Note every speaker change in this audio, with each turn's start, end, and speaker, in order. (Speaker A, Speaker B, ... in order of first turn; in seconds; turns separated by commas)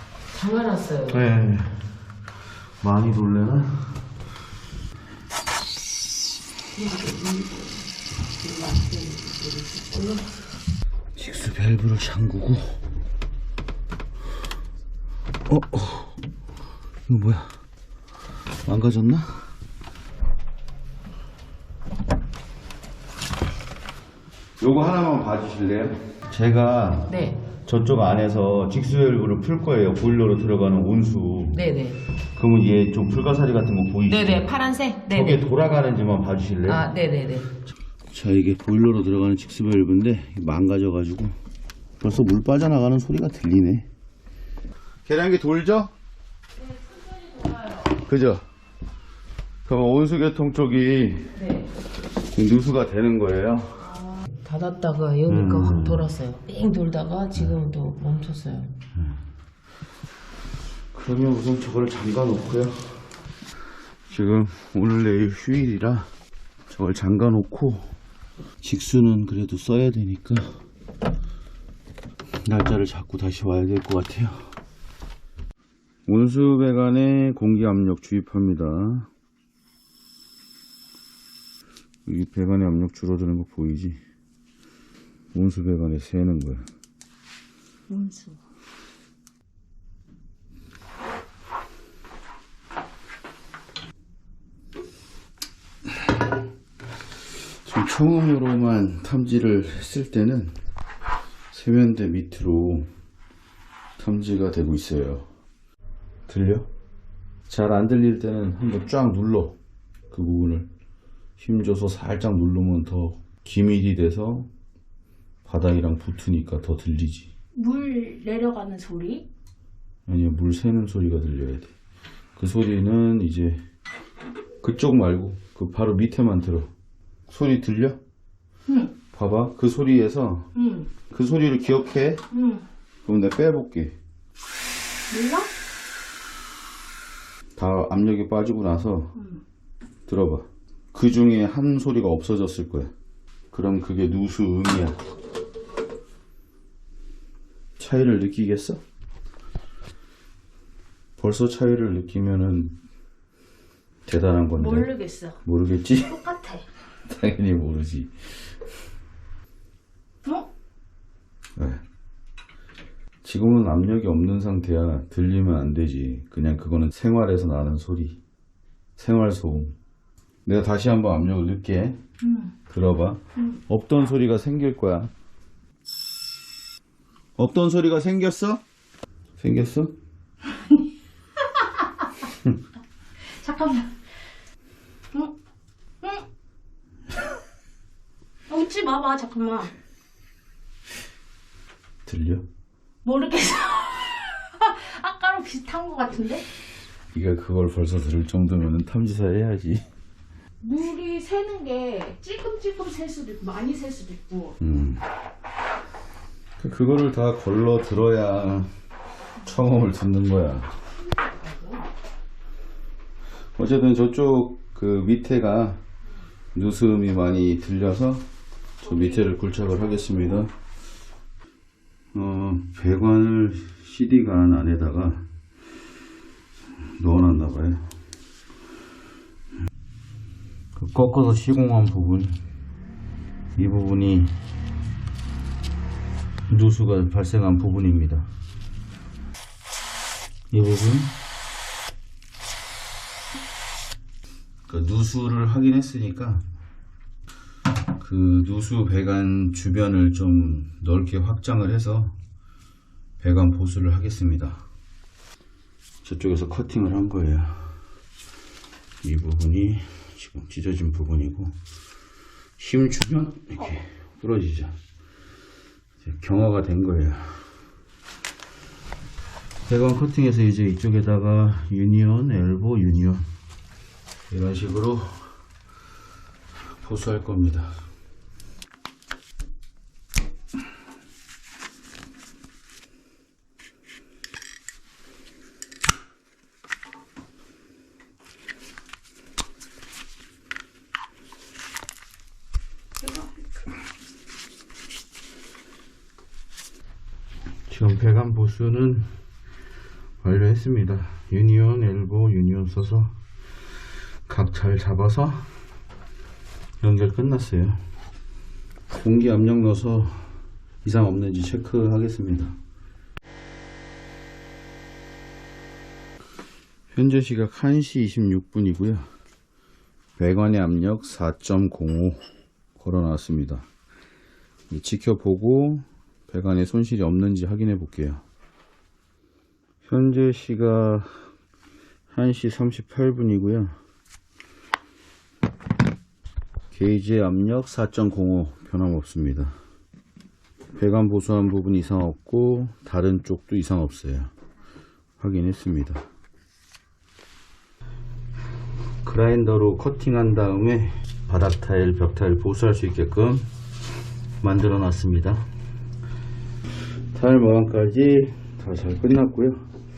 Speaker A: 0.3-1.2, Speaker B: 1.1-1.8, Speaker B: 2.8-4.0, Speaker A: 6.8-7.8, Speaker A: 8.4-10.3, Speaker B: 11.2-12.8, Speaker B: 15.5-16.2, Speaker B: 17.1-17.6, Speaker B: 18.6-19.5, Speaker B: 24.6-31.6, Speaker A: 27.1-27.5, Speaker A: 31.5-32.1, Speaker B: 32.4-34.5, Speaker A: 34.1-35.4, Speaker B: 35.1-36.9, Speaker A: 36.7-37.5, Speaker B: 38.1-41.4, Speaker B: 42.0-43.9, Speaker B: 45.0-45.9, Speaker B: 47.9-48.5, Speaker B: 49.7-51.5, Speaker B: 52.3-54.0, Speaker A: 54.3-58.8, Speaker B: 55.3-56.1, Speaker B: 57.3-57.6, Speaker B: 59.0-59.2, Speaker B: 60.9-63.1, Speaker B: 64.1-66.1, Speaker B: 66.7-68.0, Speaker B: 68.6-70.6, Speaker B: 72.4-74.5, Speaker B: 76.1-79.1, Speaker B: 82.1-84.0, Speaker B: 85.3-86.7, Speaker C: 87.9-88.4, Speaker B: 97.7-100.6, Speaker B: 101.5-102.9, Speaker B: 104.0-105.3, Speaker B: 106.3-106.7, Speaker B: 107.5-109.6, Speaker B: 110.1-110.7, Speaker B: 111.4-114.5, Speaker B: 115.5-117.3, Speaker C: 117.5-119.3, Speaker B: 120.1-121.7, Speaker B: 122.4-123.6, Speaker B: 124.6-126.7, Speaker B: 127.3-128.0, Speaker C: 128.7-128.9, Speaker B: 129.1-130.5, Speaker C: 130.6-130.9, Speaker B: 131.1-132.2, Speaker C: 132.3-132.7, Speaker B: 133.1-134.0, Speaker C: 135.1-135.5, Speaker B: 137.6-139.2, Speaker C: 139.2-139.4, Speaker B: 140.1-142.9, Speaker B: 143.5-145.0, Speaker B: 147.8-148.8, Speaker B: 151.2-152.8, Speaker B: 154.1-154.9, Speaker C: 154.6-155.4, Speaker B: 155.4-156.2, Speaker C: 156.1-156.7, Speaker B: 157.1-158.1, Speaker B: 163.2-168.2, Speaker B: 169.0-169.8, Speaker B: 170.4-172.0, Speaker C: 172.2-172.5, Speaker B: 172.7-175.1, Speaker B: 177.4-178.6, Speaker B: 179.4-180.0, Speaker C: 183.4-184.0, Speaker C: 188.5-189.7, Speaker B: 192.1-192.5, Speaker C: 193.0-196.5, Speaker B: 197.1-199.8, Speaker C: 200.6-204.6, Speaker B: 204.6-205.0, Speaker B: 206.6-208.7, Speaker B: 209.4-210.7, Speaker C: 211.4-211.8, Speaker B: 213.6-215.8, Speaker B: 216.5-218.2, Speaker B: 218.8-220.5, Speaker B: 222.1-225.3, Speaker B: 227.0-227.9, Speaker B: 230.8-232.4, Speaker B: 233.6-234.4, Speaker B: 236.5-238.3, Speaker B: 240.5-241.2, Speaker B: 244.7-246.4, Speaker B: 248.0-252.2, Speaker B: 253.2-254.7, Speaker B: 256.0-257.7, Speaker B: 259.0-261.6, Speaker B: 262.6-264.8, Speaker B: 266.0-267.4, Speaker B: 269.7-273.3, Speaker B: 274.3-275.3, Speaker B: 276.8-277.7, Speaker C: 293.0-293.4, Speaker B: 297.7-299.1, Speaker B: 300.2-303.2, Speaker B: 304.3-305.5, Speaker B: 306.8-307.8, Speaker B: 308.9-312.6, Speaker B: 316.9-319.1, Speaker B: 320.2-322.2, Speaker B: 322.8-323.7, Speaker B: 324.7-328.2, Speaker B: 329.8-331.2, Speaker B: 332.1-333.8, Speaker B: 336.7-339.6, Speaker B: 340.8-344.3, Speaker B: 345.2-346.0, Speaker B: 349.0-353.5, Speaker B: 354.4-355.5, Speaker B: 357.1-359.6